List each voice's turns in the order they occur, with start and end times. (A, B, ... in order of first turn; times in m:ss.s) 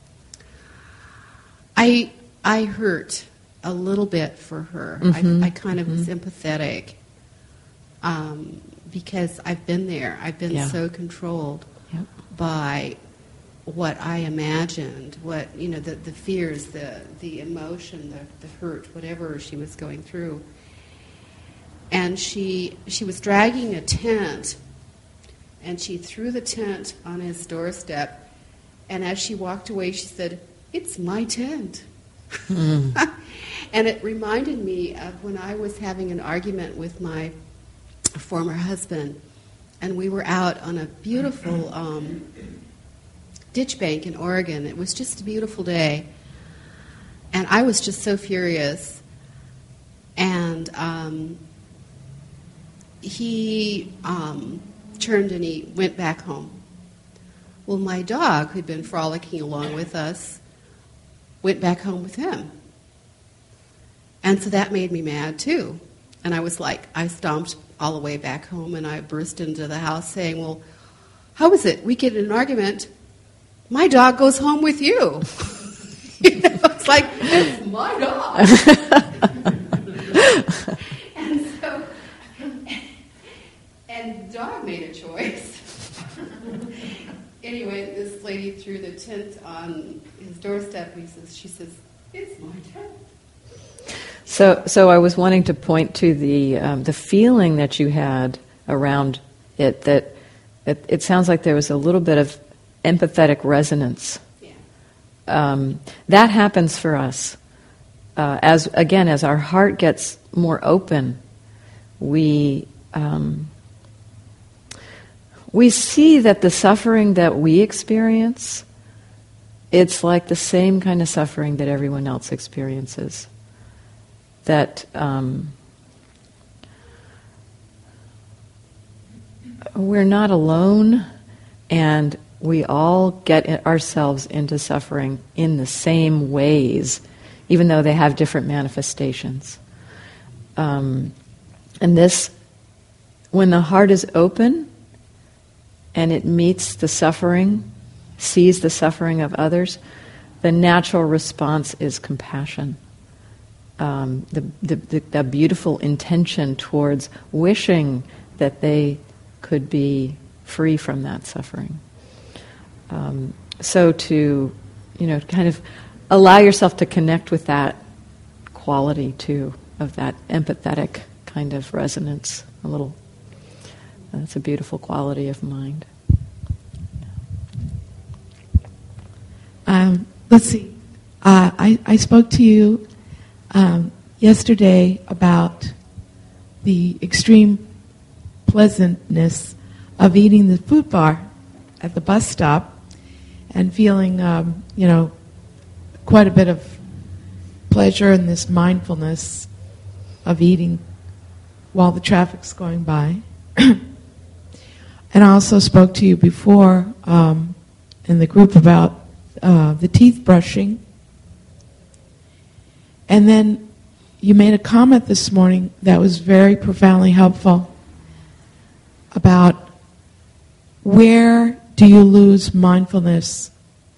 0:01.8-0:07.0 A
0:05.0-0:06.1 B
0:08.0-0:11.7 A
0:10.5-0:10.8 B
0:12.3-0:13.0 A
0:13.7-0:20.4 A
0:21.9-0:24.6 A
0:25.6-0:28.3 A
0:28.9-0:32.4 A
0:32.5-0:33.0 B
0:33.0-0:37.3 A
0:38.1-0:39.2 A
0:39.8-0:42.3 A
0:43.5-0:46.1 A
0:47.3-0:49.0 A
0:50.2-0:51.4 A
0:53.0-0:56.6 A
0:57.7-1:00.4 A
1:01.4-1:02.5 A
1:04.2-1:10.6 A
1:11.4-1:12.9 A
1:13.7-1:15.7 A
1:16.2-1:20.0 A
1:21.0-1:21.9 A
1:23.9-1:25.9 A
1:27.4-1:33.0 A
1:34.3-1:44.2 B
1:45.3-1:47.4 B
1:48.2-1:51.2 B
1:52.0-1:53.5 B
1:55.5-1:58.6 B
1:59.7-2:03.3 B
2:04.4-2:05.5 B
2:09.8-2:11.1 B
2:11.7-2:19.6 B
2:20.6-2:21.1 B
2:21.8-2:22.3 B
2:23.3-2:24.7 B
2:25.9-2:27.7 B
2:28.2-2:29.8 B
2:30.4-2:32.8 B
2:33.8-2:41.8 B
2:42.9-2:47.8 B
2:48.5-2:53.0 B
2:54.1-2:55.9 B
2:59.7-3:02.9 C
3:03.5-3:05.8 C
3:06.6-3:07.7 C
3:08.4-3:11.3 C
3:11.8-3:12.8 C
3:13.5-3:15.2 C
3:16.0-3:16.8 C
3:17.7-3:19.5 C
3:20.2-3:20.8 C
3:21.7-3:23.8 C
3:25.1-3:30.8 C
3:33.1-3:37.7 C
3:39.1-3:39.7 C
3:40.8-3:43.5 C